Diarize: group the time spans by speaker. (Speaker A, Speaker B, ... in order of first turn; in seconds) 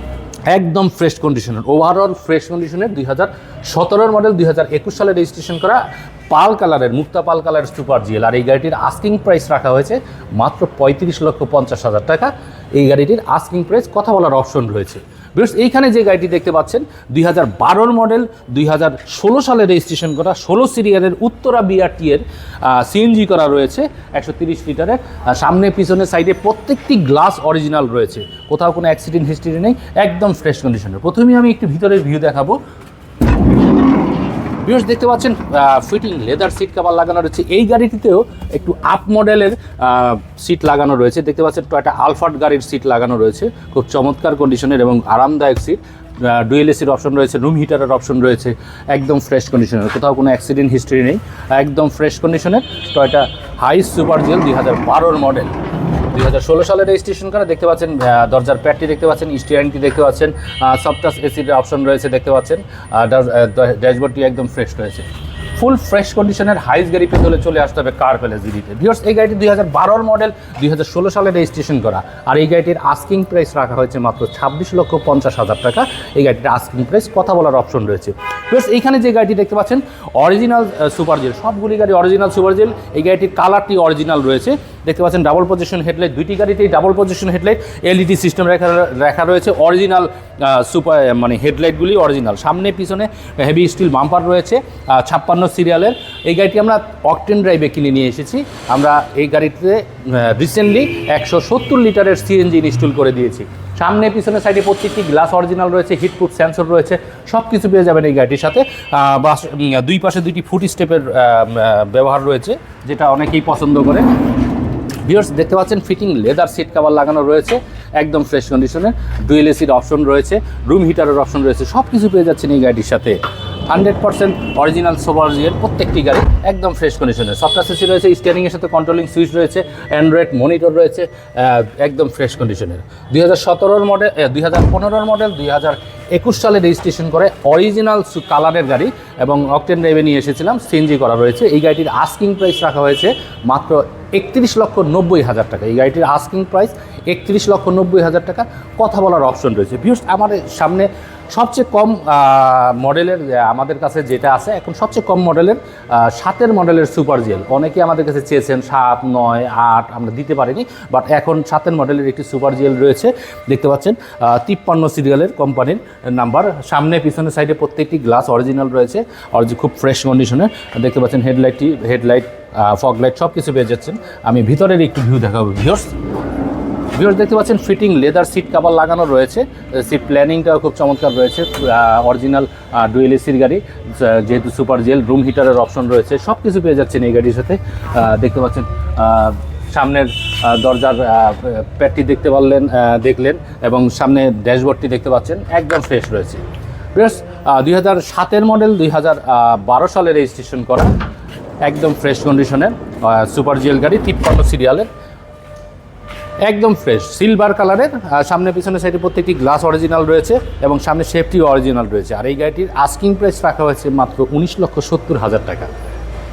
Speaker A: 0.5-32.6, 34.6-55.6, 56.1-114.1, 115.0-123.2, 123.7-175.9, 176.9-196.4, 196.9-200.9, 201.6-204.9, 206.4-215.7